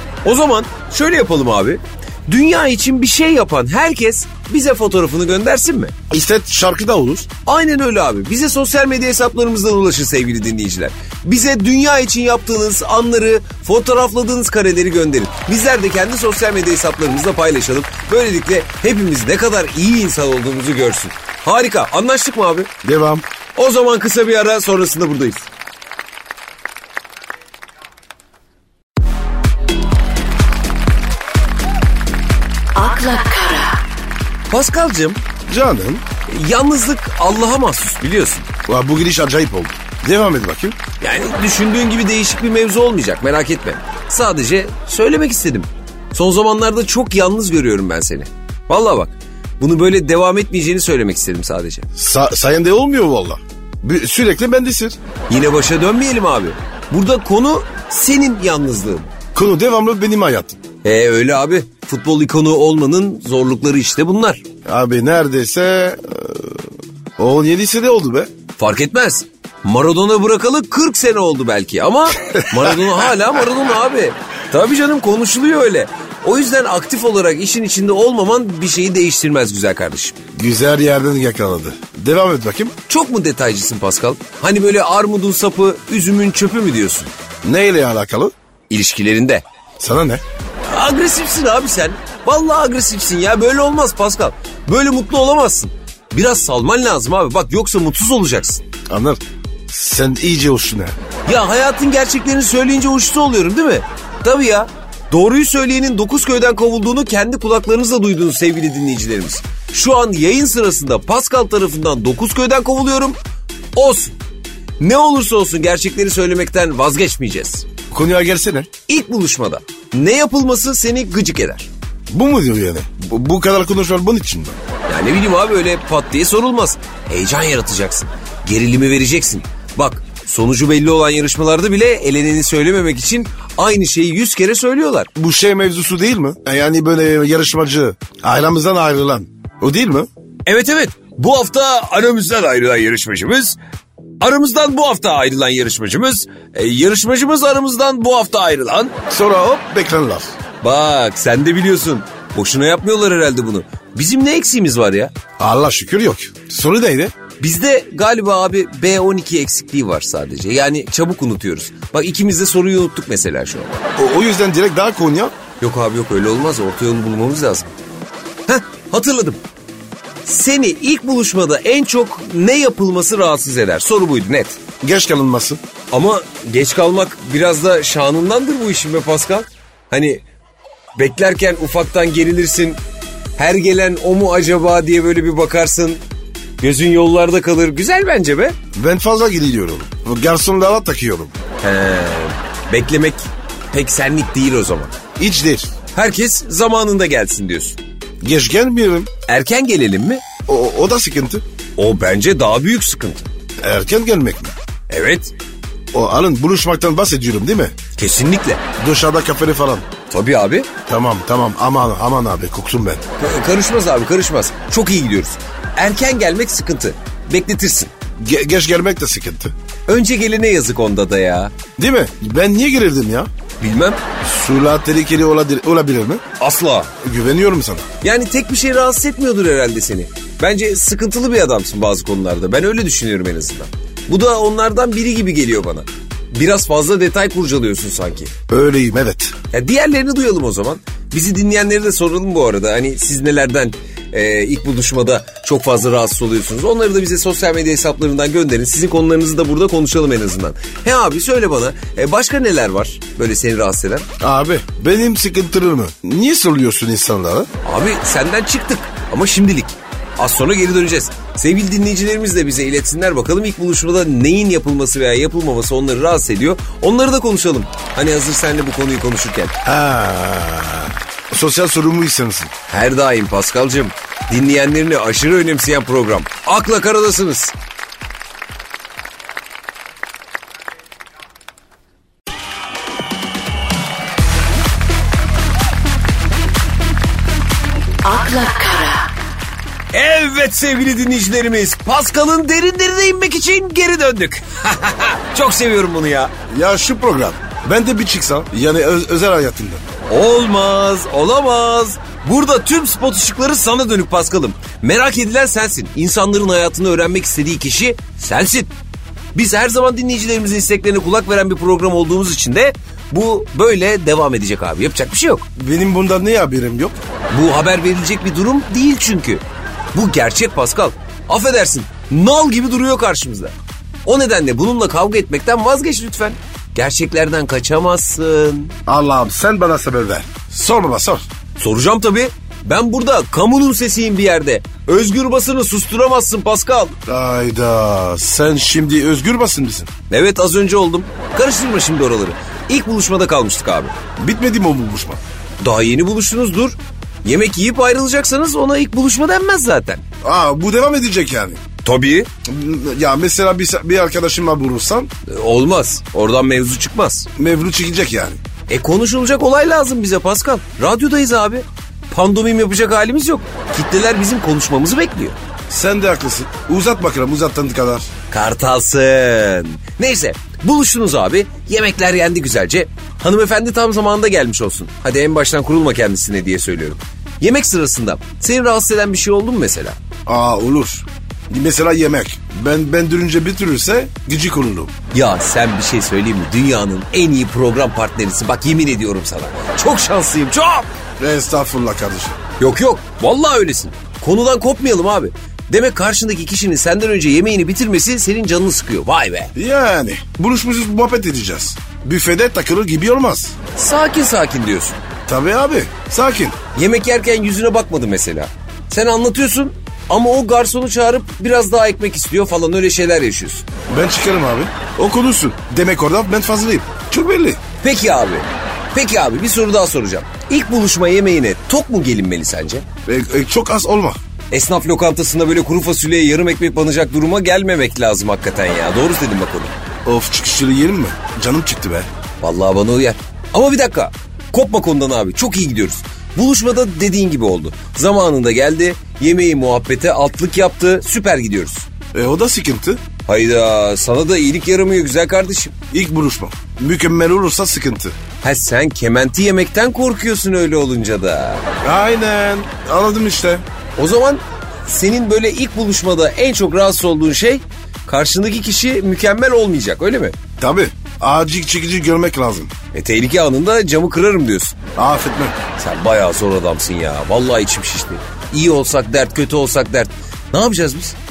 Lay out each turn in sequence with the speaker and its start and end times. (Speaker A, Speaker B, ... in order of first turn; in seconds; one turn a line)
Speaker A: 0.2-5.9
Speaker B: 6.1-7.3
Speaker A: 7.5-22.7
Speaker B: 22.8-23.2
Speaker A: 23.5-25.5
Speaker C: 32.7-33.8
Speaker A: 34.5-35.2
Speaker B: 35.5-36.0
Speaker A: 36.3-38.5
Speaker B: 38.7-40.8
Speaker A: 41.0-51.9
Speaker B: 52.0-55.0
Speaker A: 55.3-59.1
Speaker B: 59.3-60.6
Speaker A: 60.8-64.4
Speaker B: 64.7-68.3
Speaker A: 68.6-80.2
Speaker B: 80.3-82.7
Speaker A: 82.9-87.1
Speaker B: 87.4-88.3
Speaker A: 88.7-89.4
Speaker B: 89.8-90.2
Speaker A: 90.7-98.6
Speaker B: 98.9-100.9
Speaker A: 101.2-113.2
Speaker A: 113.7-114.1
Speaker A: 114.8-117.7
Speaker B: 117.9-118.7
Speaker A: 118.9-121.7
Speaker B: 122.1-124.6
Speaker A: 124.9-135.1
Speaker B: 135.2-140.1
Speaker A: 140.4-143.6
Speaker A: 144.2-148.9
Speaker B: 149.1-150.3
Speaker A: 150.6-155.1
Speaker B: 155.4-157.1
Speaker A: 157.4-163.7
Speaker B: 163.9-165.3
Speaker A: 165.6-167.7
Speaker A: 168.5-169.4
Speaker A: 170.2-174.6
Speaker B: 174.8-175.6
Speaker A: 175.9-180.2
Speaker A: 180.9-182.8
Speaker A: 183.4-186.0
Speaker A: 186.6-188.6
Speaker B: 188.7-191.4
Speaker A: 191.6-194.9
Speaker B: 195.2-195.7
Speaker A: 195.9-197.8
Speaker B: 198.2-199.1
Speaker A: 199.3-200.2
Speaker B: 200.5-201.4
Speaker A: 201.8-203.3
Speaker B: 203.6-204.5
Speaker A: 204.9-205.3
Speaker B: 205.9-207.7
Speaker A: 207.9-208.6
Speaker B: 208.8-209.8
Speaker A: 210.1-210.7
Speaker B: 210.9-213.0
Speaker A: 213.2-217.9
Speaker B: 218.2-219.5
Speaker A: 219.9-221.5
Speaker B: 221.8-223.3
Speaker A: 223.6-224.0
Speaker B: 224.2-226.2
Speaker A: 226.4-226.9
Speaker B: 227.0-227.9
Speaker A: 228.0-238.3
Speaker B: 238.5-239.3
Speaker A: 239.5-254.1
Speaker B: 254.2-257.5
Speaker A: 257.6-269.5
Speaker B: 269.6-272.5
Speaker A: 272.7-277.5
Speaker C: 288.0-289.1
Speaker A: 289.9-296.3
Speaker B: 296.5-299.9
Speaker A: 300.1-308.7
Speaker A: 309.3-315.4
Speaker B: 315.6-317.0
Speaker A: 317.3-319.4
Speaker A: 319.9-328.7
Speaker B: 328.9-331.2
Speaker A: 331.6-336.9
Speaker B: 337.1-339.9
Speaker A: 340.1-343.9
Speaker B: 344.2-345.2
Speaker A: 345.6-350.0
Speaker B: 350.2-351.6
Speaker A: 351.8-352.3
Speaker B: 352.4-355.1
Speaker A: 355.2-357.3
Speaker B: 357.4-358.4
Speaker A: 358.7-365.4
Speaker B: 365.7-368.1
Speaker A: 368.3-380.0
Speaker B: 380.2-384.9
Speaker A: 385.1-390.9
Speaker B: 391.2-392.4
Speaker A: 392.6-399.5
Speaker B: 399.5-403.5
Speaker A: 403.8-405.0
Speaker B: 405.3-406.6
Speaker A: 406.7-413.6
Speaker B: 413.9-417.6
Speaker A: 417.8-422.8
Speaker B: 423.1-424.2
Speaker A: 424.5-429.7
Speaker B: 430.0-432.1
Speaker A: 432.4-441.9
Speaker B: 442.1-443.0
Speaker A: 443.3-445.7
Speaker B: 445.9-448.2
Speaker A: 448.4-451.6
Speaker B: 451.8-453.6
Speaker A: 454.0-460.4
Speaker B: 460.6-462.7
Speaker A: 462.9-464.8
Speaker B: 464.9-465.6
Speaker A: 465.8-471.1